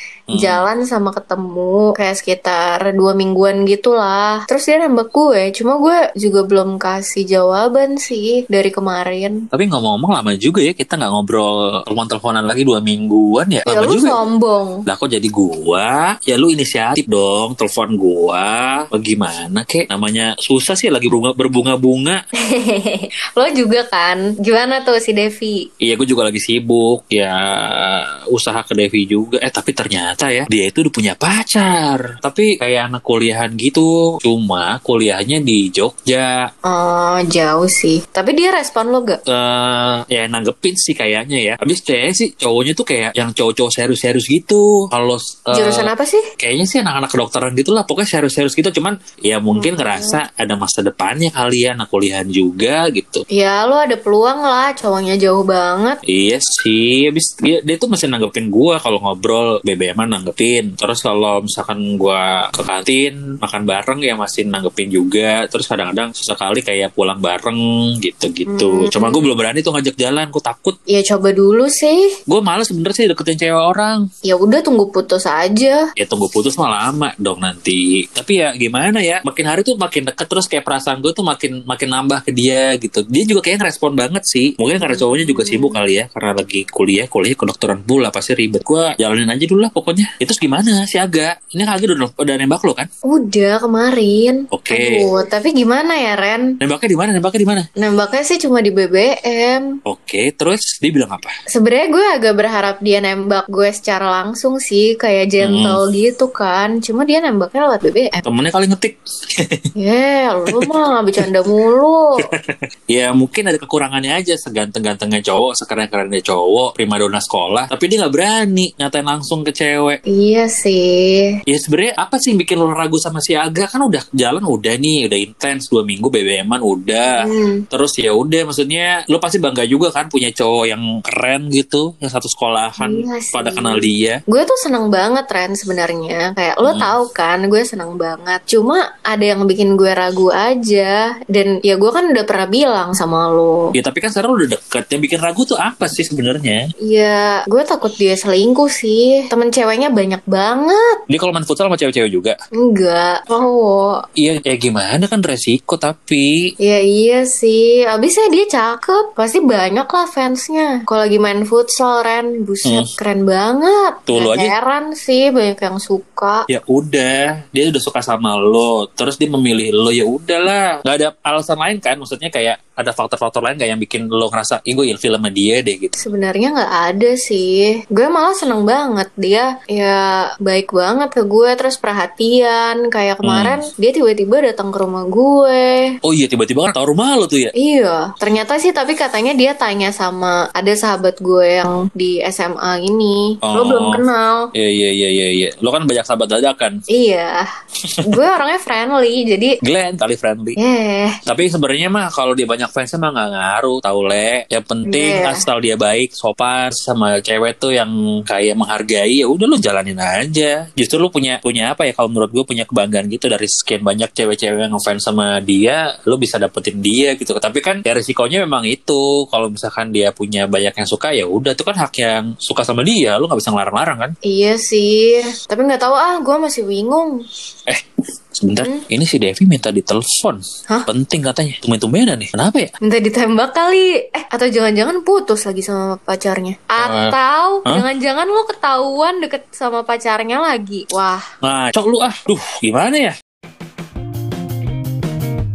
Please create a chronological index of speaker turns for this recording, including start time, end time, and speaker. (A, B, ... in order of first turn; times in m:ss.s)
0:00.3-0:00.6 A
0:00.3-0:09.4 B
0:09.5-0:14.2 A
0:13.7-0:14.8 B
0:14.9-0:22.2 A
0:22.5-0:25.7 B
0:25.8-0:36.4 A
0:36.6-0:39.2 B
0:39.3-0:53.2 A
0:45.5-0:46.2 B
0:49.5-0:50.2 B
0:53.3-0:56.0 B
0:56.0-1:10.8 A
1:08.5-1:09.3 B
1:10.9-1:12.2 B
1:12.3-1:14.0 A
1:14.2-1:15.8 B
1:16.0-1:32.9 A
1:24.8-1:25.8 B
1:33.0-1:36.5 B
1:34.5-1:35.0 A
1:36.6-1:37.7 A
1:37.8-1:39.7 B
1:39.8-1:41.3 A
1:41.5-1:48.2 B
1:45.4-1:45.8 A
1:48.2-1:49.6 A
1:49.8-1:52.3 B
1:50.5-1:51.3 A
1:52.3-2:00.0 A
2:00.1-2:01.4 B
2:01.5-2:14.2 A
2:07.1-2:07.6 B
2:12.8-2:23.7 B
2:16.6-2:16.9 A
2:23.7-2:26.6 A
2:26.8-2:31.0 B
2:31.1-2:32.4 A
2:32.6-2:34.0 B
2:34.2-2:36.5 A
2:36.6-2:46.5 B
2:42.6-2:42.9 A
2:44.1-2:44.5 A
2:46.5-2:56.0 A
2:56.0-3:06.0 B
3:03.2-3:03.6 A
3:06.0-3:07.5 A
3:07.5-3:14.5 B
3:13.4-3:14.0 A
3:14.5-3:16.8 A
3:16.9-3:17.4 B
3:18.0-3:19.6 B
3:19.6-3:20.6 A
3:20.6-3:21.2 B
3:21.2-3:44.1 A
3:24.8-3:25.4 B
3:44.2-3:47.2 B
3:48.4-3:52.7 A
3:52.8-4:01.2 B
3:56.8-3:57.8 A
4:01.4-4:03.1 A